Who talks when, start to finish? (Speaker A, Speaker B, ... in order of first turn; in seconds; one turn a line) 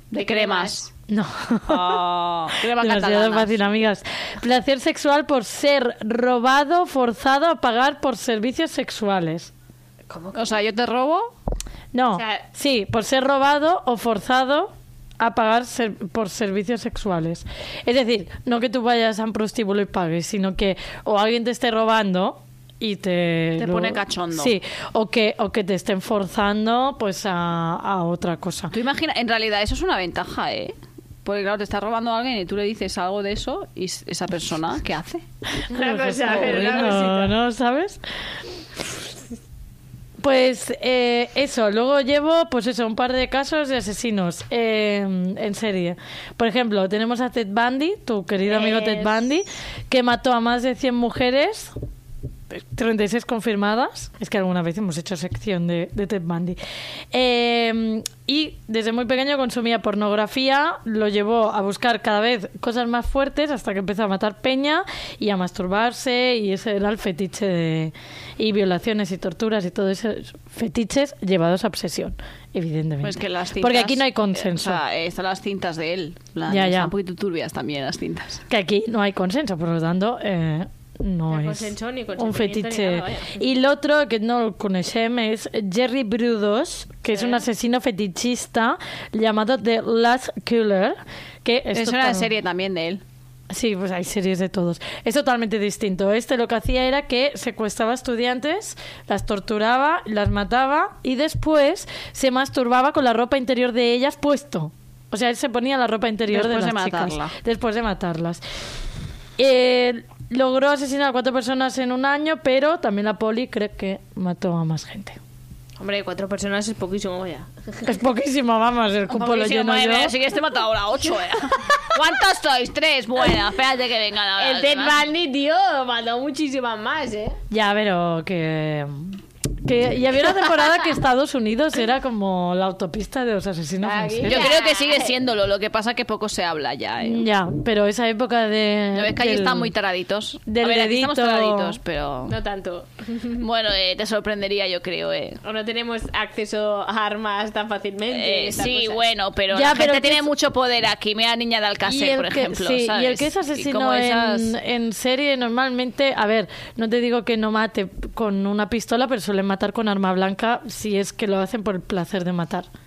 Speaker A: 0.1-0.9
Speaker B: 0.1-0.8
Speaker C: 1.1-2.0
Speaker B: 1.7-3.6
Speaker C: 2.7-9.5
Speaker A: 10.1-10.6
Speaker B: 10.3-11.3
Speaker C: 11.9-28.7
Speaker A: 12.1-12.4
Speaker B: 23.6-24.6
Speaker B: 28.7-35.2
Speaker C: 35.6-38.0
Speaker A: 35.7-37.4
Speaker C: 40.2-51.7
Speaker A: 48.5-49.3
Speaker C: 52.5-56.6
Speaker C: 57.1-74.8
Speaker B: 73.0-78.4
Speaker C: 76.5-76.9
Speaker C: 78.5-92.3
Speaker A: 81.3-83.4
Speaker A: 87.1-87.4
Speaker B: 91.7-93.0
Speaker C: 93.5-108.4
Speaker B: 106.3-107.3
Speaker C: 109.4-115.2
Speaker A: 115.8-117.6
Speaker C: 117.8-120.1
Speaker B: 119.1-125.0
Speaker A: 124.4-127.4
Speaker C: 127.5-134.5
Speaker A: 133.8-135.1
Speaker B: 134.3-137.3
Speaker C: 137.0-139.7
Speaker B: 138.9-142.4
Speaker C: 140.5-141.8
Speaker A: 142.3-143.4
Speaker B: 143.4-145.4
Speaker A: 145.4-149.1
Speaker B: 148.1-154.5
Speaker C: 149.5-150.3
Speaker C: 151.8-162.7